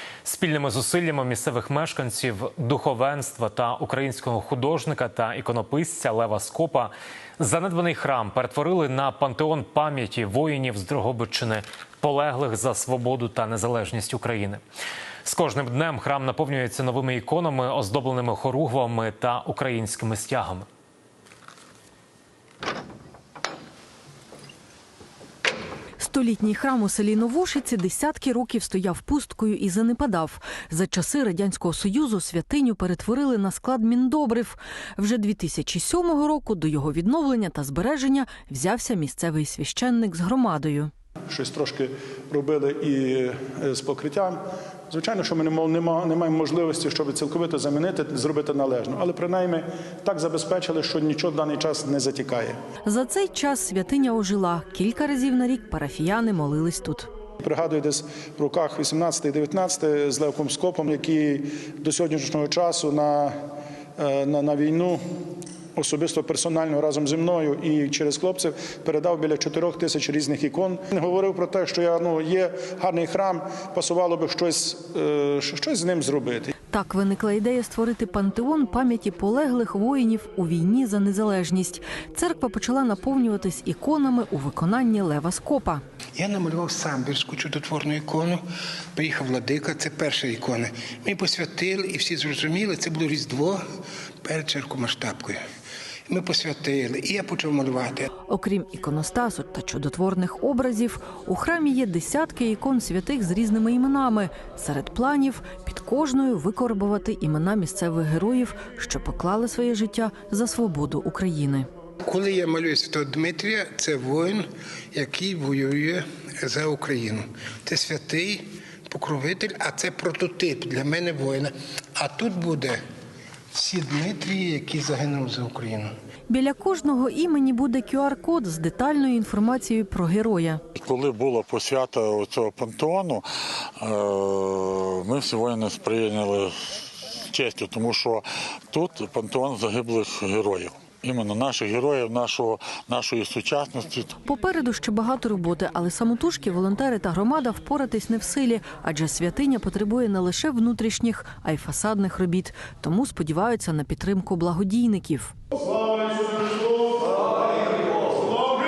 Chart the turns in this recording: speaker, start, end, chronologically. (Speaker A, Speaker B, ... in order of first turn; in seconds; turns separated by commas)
Speaker A: 0.2-14.6, Speaker A: 15.2-20.6, Speaker B: 26.0-40.9, Speaker C: 41.3-52.6, Speaker B: 52.8-57.1, Speaker C: 57.4-63.3, Speaker C: 64.0-65.0, Speaker C: 65.8-76.5, Speaker B: 76.7-85.8, Speaker D: 86.2-88.4, Speaker D: 88.9-93.6, Speaker D: 94.2-95.4, Speaker D: 96.1-98.1, Speaker B: 98.3-111.7, Speaker D: 112.0-122.8, Speaker D: 123.5-125.9, Speaker B: 126.3-130.6, Speaker E: 130.7-133.2, Speaker E: 133.8-144.1, Speaker B: 144.2-155.3